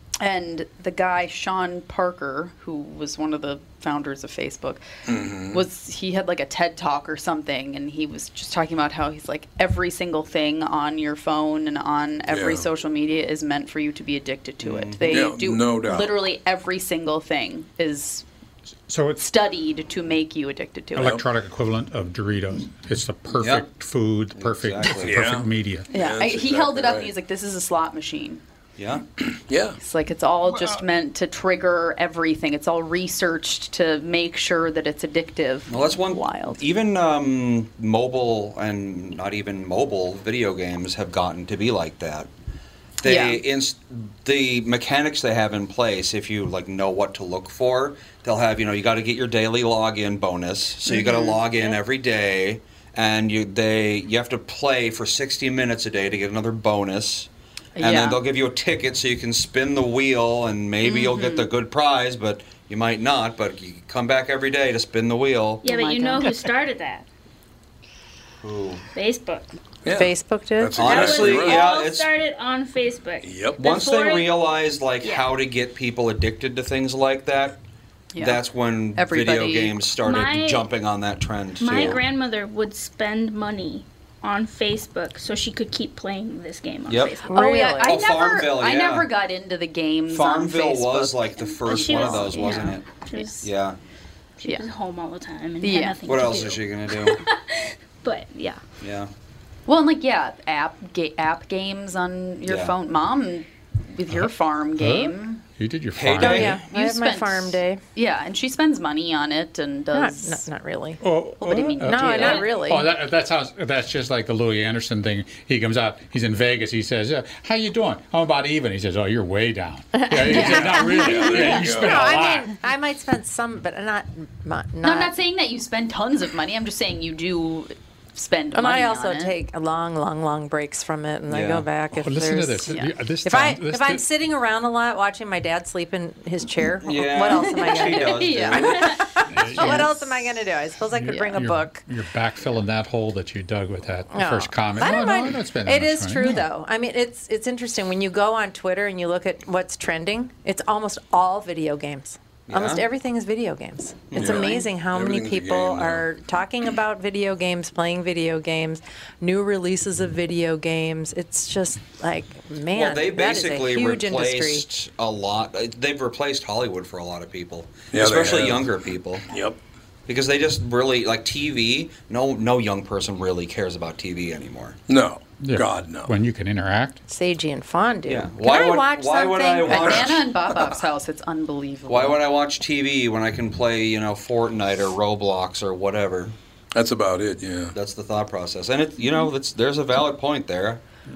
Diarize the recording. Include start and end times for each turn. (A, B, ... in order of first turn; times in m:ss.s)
0:00.2-0:04.8 A
0:05.1-0:05.6 B
0:05.5-0:18.3 A
0:12.3-0:12.7 B
0:14.6-0:15.3 C
0:15.1-0:16.1 B
0:18.9-0:19.2 D
0:19.2-0:21.2 A
0:21.0-0:25.9 D
0:23.3-0:23.7 C
0:24.4-0:25.2 C
0:25.0-0:27.1 B
0:25.9-0:28.4 A
0:28.8-0:29.0 C
0:29.5-0:29.8 B
0:29.8-0:36.6 A
0:35.7-0:42.3 C
0:43.0-1:05.6 C
0:43.0-0:43.4 A
0:50.9-0:51.8 A
0:57.8-0:58.2 A
1:00.8-1:01.5 A
1:05.6-1:07.1 E
1:05.6-1:06.5 A
1:08.4-1:08.8 C
1:08.9-1:09.5 E
1:09.8-1:11.7 B
1:09.9-1:10.8 F
1:10.8-1:12.1 C
1:10.8-1:14.5 E
1:13.2-1:13.6 B
1:13.6-1:17.6 C
1:15.0-1:15.3 E
1:18.1-1:18.4 A
1:18.2-1:22.0 C
1:19.0-1:19.8 A
1:20.0-1:20.7 E
1:21.6-1:27.4 E
1:26.9-1:27.3 C
1:27.3-1:28.0 F
1:27.3-1:33.3 A
1:27.8-1:29.1 C
1:30.1-1:32.9 C
1:31.7-1:33.5 E
1:33.4-1:33.8 C
1:34.4-1:38.6 E
1:35.6-1:36.1 A
1:36.1-1:37.2 C
1:38.8-1:39.1 C
1:39.7-1:45.4 A
1:42.5-1:42.8 C
1:44.8-1:46.6 D
1:46.0-1:46.7 C
1:46.2-1:47.8 F
1:46.7-1:50.5 A
1:49.9-1:52.9 F
1:51.0-2:02.5 D
1:51.4-1:52.6 A
2:00.0-2:05.2 F
2:00.3-2:01.5 A
2:00.9-2:02.2 B
2:04.8-2:09.4 A
2:08.5-2:21.8 F
2:11.3-2:11.7 C
2:11.9-2:14.0 D
2:16.8-2:19.0 C
2:17.3-2:19.9 A
2:19.3-2:20.0 D
2:21.0-2:26.4 D
2:24.1-2:44.7 F
2:32.5-2:32.8 C
2:34.1-2:34.5 C
2:34.1-2:36.0 B
2:42.7-2:49.3 C
2:47.9-2:48.7 B
2:49.3-2:49.6 B
2:50.1-2:54.8 C
2:54.9-2:56.1 B
2:55.4-2:57.0 D
2:57.1-3:00.1 F
2:58.1-3:00.3 C
2:59.7-3:02.2 A
3:01.9-3:06.4 C
3:06.7-3:07.8 B
3:07.7-3:10.8 C